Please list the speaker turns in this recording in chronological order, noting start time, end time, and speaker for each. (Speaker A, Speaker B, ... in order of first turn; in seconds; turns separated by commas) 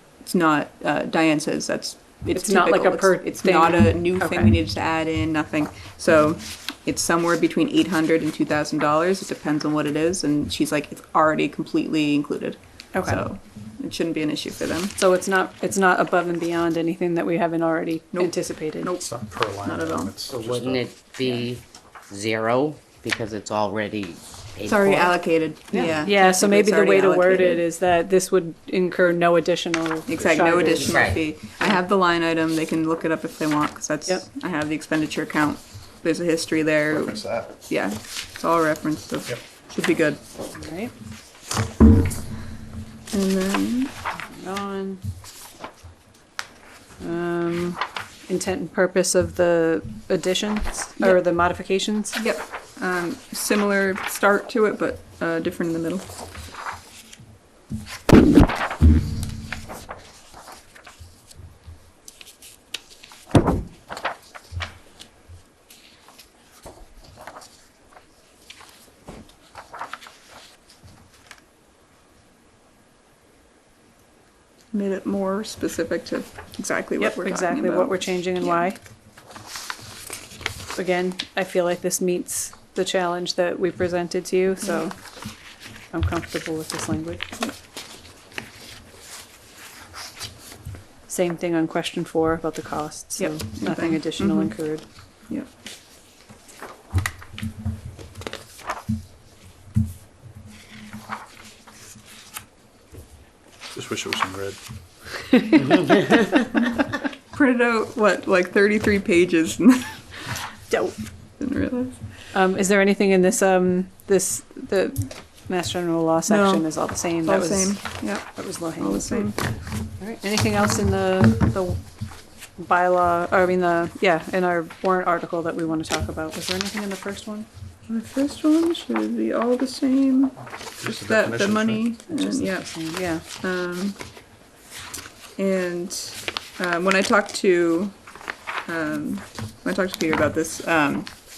Speaker A: 0.2-14.9, Speaker B: 2.3-4.6, Speaker B: 12.9-13.2, Speaker B: 15.0-18.9, Speaker A: 18.1-19.1, Speaker C: 19.0-20.9, Speaker A: 19.6-20.1, Speaker D: 20.3-25.2, Speaker A: 24.6-27.6, Speaker D: 25.7-26.0, Speaker B: 25.8-31.0, Speaker A: 30.1-40.2, Speaker D: 30.8-31.2, Speaker C: 36.9-37.5, Speaker B: 40.5-40.9, Speaker A: 43.1-43.9, Speaker B: 44.3-45.0, Speaker B: 47.0-52.2, Speaker A: 52.1-56.0, Speaker A: 74.7-78.7, Speaker B: 77.0-78.8, Speaker B: 80.7-85.0, Speaker B: 85.9-87.2, Speaker B: 91.1-94.8, Speaker A: 93.2-94.5, Speaker C: 103.7-104.6, Speaker B: 105.5-106.3, Speaker A: 107.3-110.0, Speaker B: 110.7-110.9, Speaker A: 111.4-112.0, Speaker B: 112.3-119.3, Speaker A: 116.3-119.4, Speaker B: 120.0-121.8, Speaker B: 122.6-127.5, Speaker A: 127.9-132.7, Speaker C: 130.8-131.9, Speaker B: 132.1-133.2, Speaker A: 133.4-134.0, Speaker A: 135.4-137.9, Speaker A: 138.6-141.1